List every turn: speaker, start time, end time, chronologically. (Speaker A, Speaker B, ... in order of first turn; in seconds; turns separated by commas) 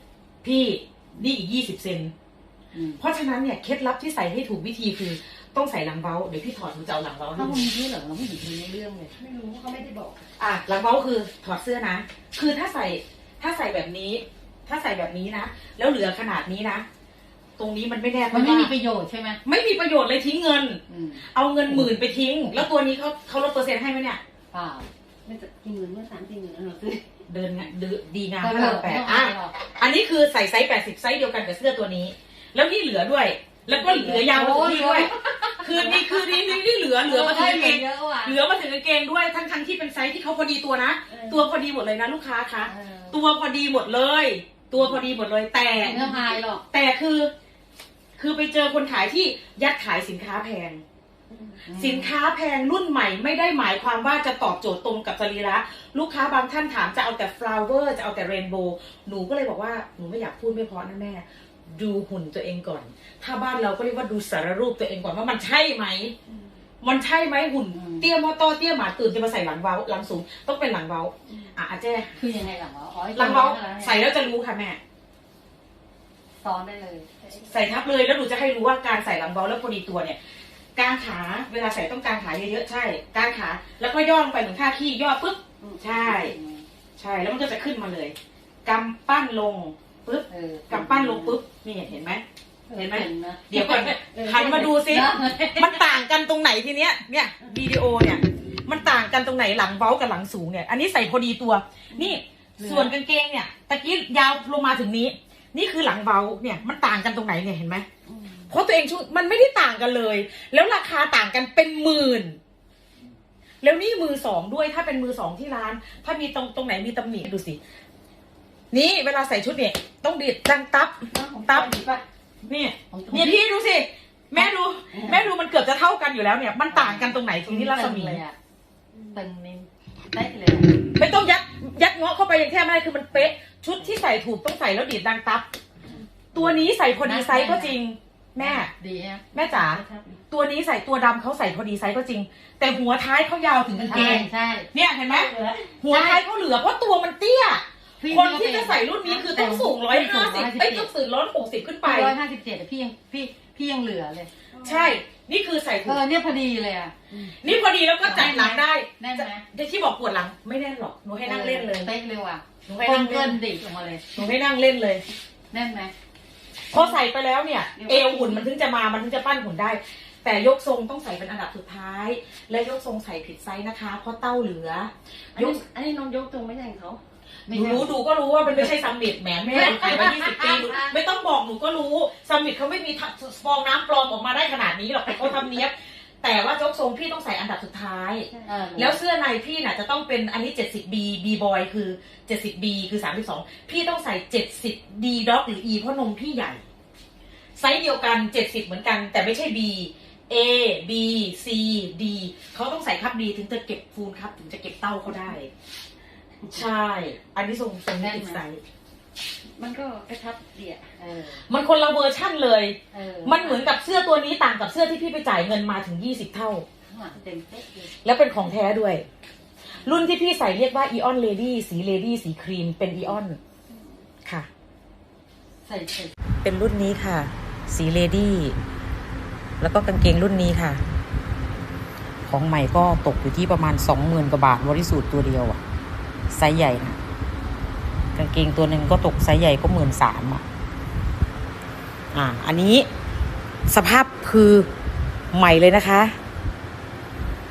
Speaker A: 0.4-2.1, Speaker B: 2.7-3.0, Speaker A: 3.0-7.7, Speaker B: 7.3-9.1, Speaker C: 9.2-10.2, Speaker A: 10.4-16.9, Speaker A: 17.6-18.7, Speaker B: 18.3-19.4, Speaker A: 19.4-24.2, Speaker B: 20.9-22.6, Speaker B: 24.5-24.9, Speaker C: 25.2-27.0, Speaker A: 27.3-47.3, Speaker B: 28.4-29.5, Speaker B: 33.7-38.4, Speaker C: 41.1-41.5, Speaker B: 42.6-43.2, Speaker B: 45.8-46.6, Speaker A: 48.2-50.8, Speaker C: 51.3-51.6, Speaker B: 51.6-52.1, Speaker A: 51.7-66.1, Speaker A: 66.8-72.2, Speaker B: 67.7-68.1, Speaker B: 72.2-74.0, Speaker A: 73.1-74.8, Speaker B: 76.4-77.1, Speaker A: 77.3-80.2, Speaker A: 80.7-86.3, Speaker B: 85.8-86.7, Speaker A: 87.0-92.2, Speaker B: 90.3-91.4, Speaker B: 92.7-95.9, Speaker A: 92.7-107.8, Speaker C: 94.0-94.8, Speaker B: 102.0-102.9, Speaker A: 108.5-112.4, Speaker A: 113.6-117.6, Speaker A: 118.7-121.8, Speaker B: 121.2-122.0, Speaker C: 121.5-121.8, Speaker A: 122.5-128.2, Speaker B: 122.9-123.4, Speaker B: 124.3-125.3, Speaker B: 126.7-128.3, Speaker B: 129.1-130.8, Speaker A: 130.9-135.4, Speaker B: 136.3-137.8, Speaker A: 136.3-138.7, Speaker B: 138.4-140.1, Speaker A: 139.3-152.1, Speaker B: 143.8-144.7, Speaker B: 145.5-146.2, Speaker B: 148.0-150.9, Speaker B: 151.8-154.3, Speaker C: 154.5-155.0, Speaker A: 154.6-156.0, Speaker B: 155.8-157.3, Speaker A: 157.4-161.9, Speaker B: 158.0-159.4, Speaker B: 161.2-164.3, Speaker A: 162.7-163.4, Speaker A: 164.1-165.0, Speaker B: 165.5-165.9, Speaker A: 166.7-175.6, Speaker C: 167.8-168.4, Speaker C: 175.3-177.0, Speaker B: 177.5-177.9, Speaker A: 177.5-196.6, Speaker B: 179.5-180.9, Speaker B: 188.4-189.0, Speaker A: 197.6-205.5, Speaker A: 206.5-208.6, Speaker B: 207.9-208.4, Speaker C: 209.5-210.9, Speaker B: 211.0-211.4, Speaker A: 211.5-216.6, Speaker B: 212.9-213.8, Speaker B: 216.9-217.9, Speaker A: 218.0-219.0, Speaker B: 219.8-220.1, Speaker A: 219.8-223.4, Speaker B: 225.6-226.1, Speaker A: 226.4-228.6, Speaker A: 229.6-230.8, Speaker A: 232.2-235.6, Speaker A: 236.3-237.0, Speaker A: 238.2-240.4, Speaker A: 242.1-242.9, Speaker A: 243.7-244.7, Speaker A: 245.3-246.1